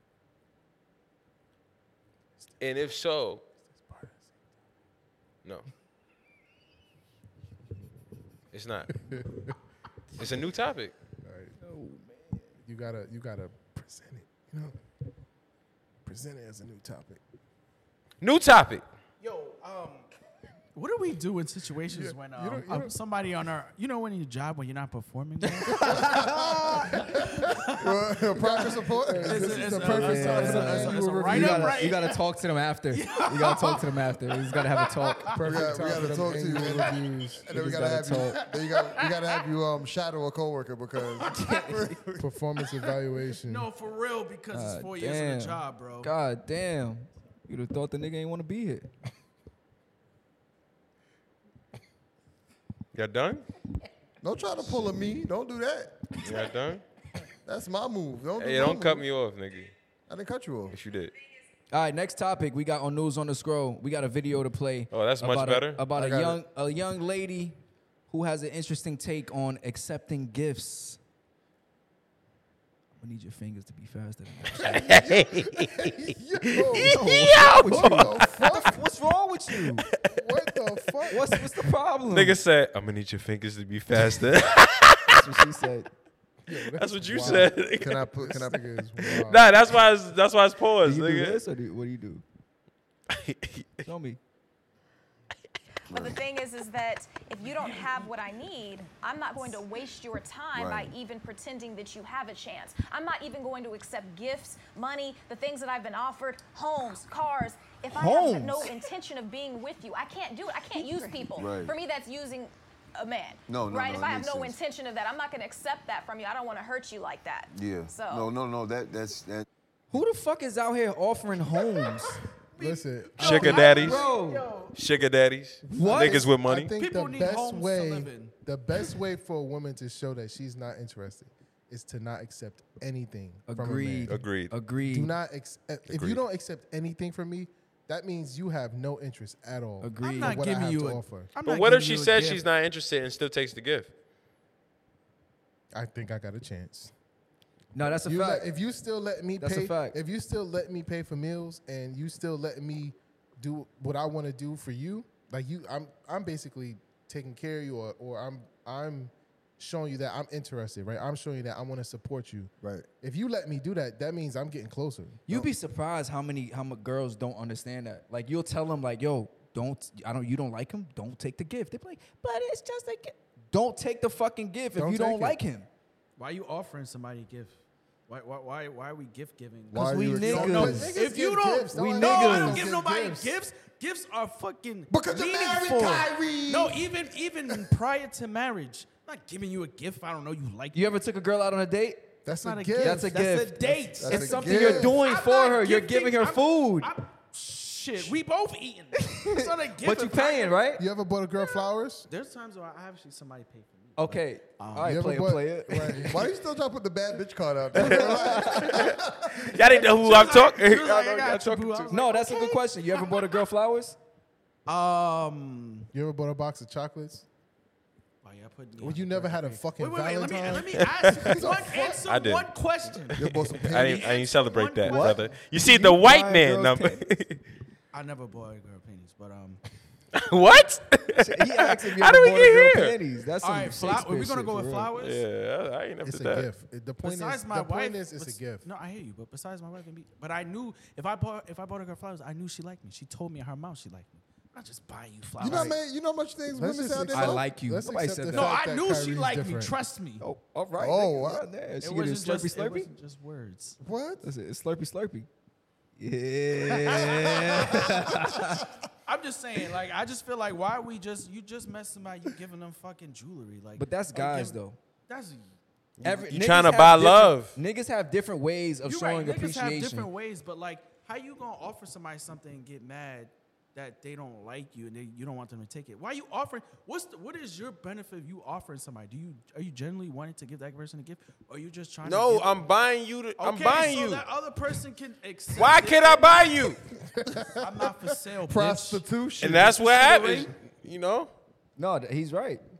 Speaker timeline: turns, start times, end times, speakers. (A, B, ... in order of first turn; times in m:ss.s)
0:02.6-0:03.4 A
0:03.7-0:04.3 B
0:08.5-0:08.9 A
0:08.9-0:09.6 B
0:10.2-0:11.0 A
0:11.2-0:11.6 B
0:11.6-0:12.6 C
0:12.6-0:14.8 B
0:16.0-0:17.2 B
0:18.2-0:18.8 A
0:19.2-0:20.1 D
0:20.8-0:27.9 D
0:21.9-0:22.9 B
0:25.8-0:30.0 E
0:28.4-0:32.0 B
0:29.2-0:32.2 D
0:29.9-0:35.4 C
0:32.9-0:35.3 D
0:35.3-0:37.5 B
0:35.4-0:42.3 E
0:37.5-0:38.4 C
0:39.0-0:39.3 D
0:41.3-0:42.0 C
0:42.2-0:43.7 B
0:43.4-0:46.1 D
0:44.5-0:48.9 C
0:52.9-0:53.4 A
0:54.2-0:56.2 E
0:56.2-0:56.8 A
0:57.4-0:59.1 E
0:58.4-0:59.7 A
1:00.1-1:00.8 E
1:00.7-1:01.1 A
1:01.7-1:07.6 C
1:04.9-1:05.9 A
1:06.0-1:06.4 E
1:08.1-1:11.0 C
1:13.0-1:14.8 C
1:14.6-1:18.8 B
1:14.6-1:16.0 A
1:16.6-1:18.5 A
1:16.8-1:19.9 C
1:19.8-1:20.1 A
1:20.1-1:21.3 B
1:21.1-1:22.4 C
1:22.1-1:25.2 A
1:25.1-1:25.9 C
1:26.5-1:29.7 B
1:26.7-1:28.0 A
1:27.2-1:28.6 E
1:29.1-1:31.4 A
1:30.8-1:32.2 C
1:33.1-1:33.8 A
1:33.8-1:34.2 C
1:35.9-1:36.2 F
1:35.9-1:58.3 G
1:40.6-1:41.0 F
1:47.9-1:48.7 C
1:51.3-1:51.8 F
1:53.5-1:54.6 F
1:57.5-1:59.5 F
1:59.9-2:02.2 C
2:02.6-2:04.8 D
2:02.6-2:03.9 B
2:03.2-2:04.0 A
2:03.4-2:04.5 C
2:04.7-2:06.7 A
2:05.7-2:06.3 C
2:05.7-2:14.3 B
2:06.8-2:08.3 D
2:13.5-2:15.1 C
2:14.1-2:14.5 A
2:14.8-2:21.3 B
2:15.9-2:16.2 A
2:19.8-2:20.4 C
2:20.0-2:22.4 D
2:21.4-2:23.9 A
2:25.7-2:26.9 B
2:27.7-2:28.5 C
2:27.8-2:45.2 B
2:29.4-2:30.0 C
2:42.6-2:42.9 E
2:45.3-2:55.7 C
2:54.8-2:55.4 B
2:56.2-2:57.6 D
2:58.1-3:10.9 D
2:59.7-3:00.9 E
2:59.8-3:00.9 C
3:00.4-3:03.4 B
3:01.8-3:02.3 C
3:01.8-3:02.7 E
3:04.9-3:06.9 E
3:10.7-3:12.2 C
3:12.2-3:13.1 B
3:12.3-3:20.7 D
3:12.8-3:16.9 C
3:14.0-3:15.0 E
3:19.0-3:20.8 C
3:20.8-3:22.1 B
3:21.4-3:25.0 D
3:24.0-3:26.1 C
3:24.8-3:26.3 B
3:26.0-3:29.6 E
3:27.7-3:31.9 A
3:28.1-3:28.5 C
3:29.7-3:33.2 D
3:31.9-3:34.0 C
3:34.7-3:35.9 D
3:35.9-3:37.3 B
3:38.2-3:45.4 D
3:38.8-3:41.9 B
3:41.0-3:41.4 A
3:41.4-3:41.9 E
3:42.0-3:42.5 A
3:43.2-3:44.2 E
3:43.2-3:47.4 A
3:44.9-3:47.1 C
3:47.9-3:49.6 D
3:50.1-3:53.0 A
3:51.2-3:54.9 C
3:53.4-3:55.2 D
3:55.0-3:56.5 A
3:56.0-3:58.7 B
3:57.0-4:05.8 D
4:05.4-4:07.5 E
4:06.5-4:09.7 B
4:07.1-4:08.6 C
4:08.3-4:10.2 D
4:10.2-4:12.9 C
4:10.8-4:11.5 E
4:11.8-4:13.8 D
4:13.8-4:14.3 E
4:14.2-4:15.3 C
4:16.0-4:18.7 C
4:16.6-4:25.5 D
4:23.8-4:24.8 C
4:26.0-4:27.6 A
4:26.0-4:30.1 C
4:28.8-4:42.6 D
4:42.0-4:44.2 A
4:43.4-4:46.8 D
4:45.6-4:46.8 A
4:47.0-4:47.6 B
4:47.6-4:49.0 D
4:48.5-4:49.8 E
4:49.4-4:51.3 A
4:49.6-4:50.5 D
4:51.8-4:52.6 C